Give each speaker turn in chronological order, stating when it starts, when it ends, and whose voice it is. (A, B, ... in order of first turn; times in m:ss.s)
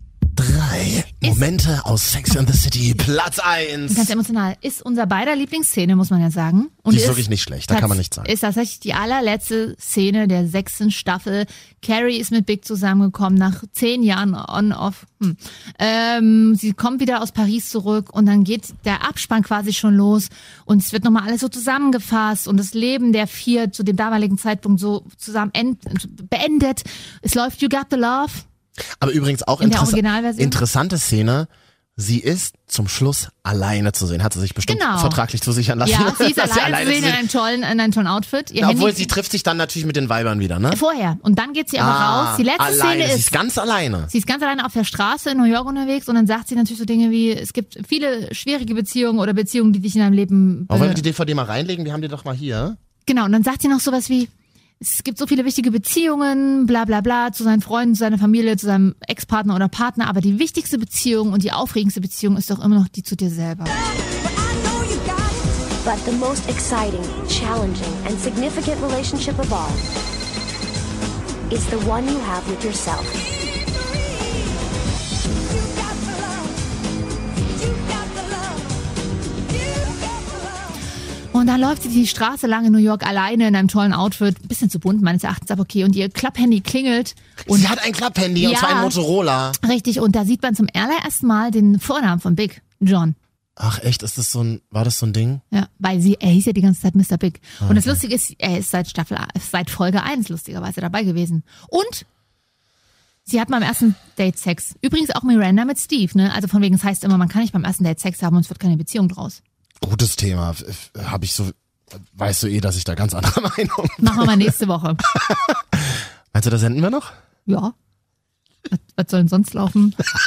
0:00.4-0:04.1 A
0:03.9-0:28.4 B
0:06.9-0:08.3 A
0:29.0-0:37.2 A
0:29.6-0:30.6 B
0:34.7-0:35.2 B
0:35.8-0:39.1 B
0:38.6-0:40.8 A
0:40.7-0:43.4 B
0:41.8-0:44.1 A
0:44.1-0:51.0 B
0:50.7-0:52.8 A
0:53.1-0:54.3 B
0:54.8-1:03.8 B
1:05.8-1:09.8 C
1:11.5-1:13.4 C
1:21.3-1:27.7 B
1:27.5-1:29.6 A
1:28.4-1:29.0 B
1:29.6-1:33.2 B
1:33.6-1:35.4 A
1:35.5-1:42.0 B
1:37.6-1:38.0 A
1:43.3-1:49.4 B
1:49.8-1:54.5 A
1:54.0-1:55.0 B
1:55.1-1:57.1 A
1:57.5-1:57.7 B
1:58.7-2:00.0 B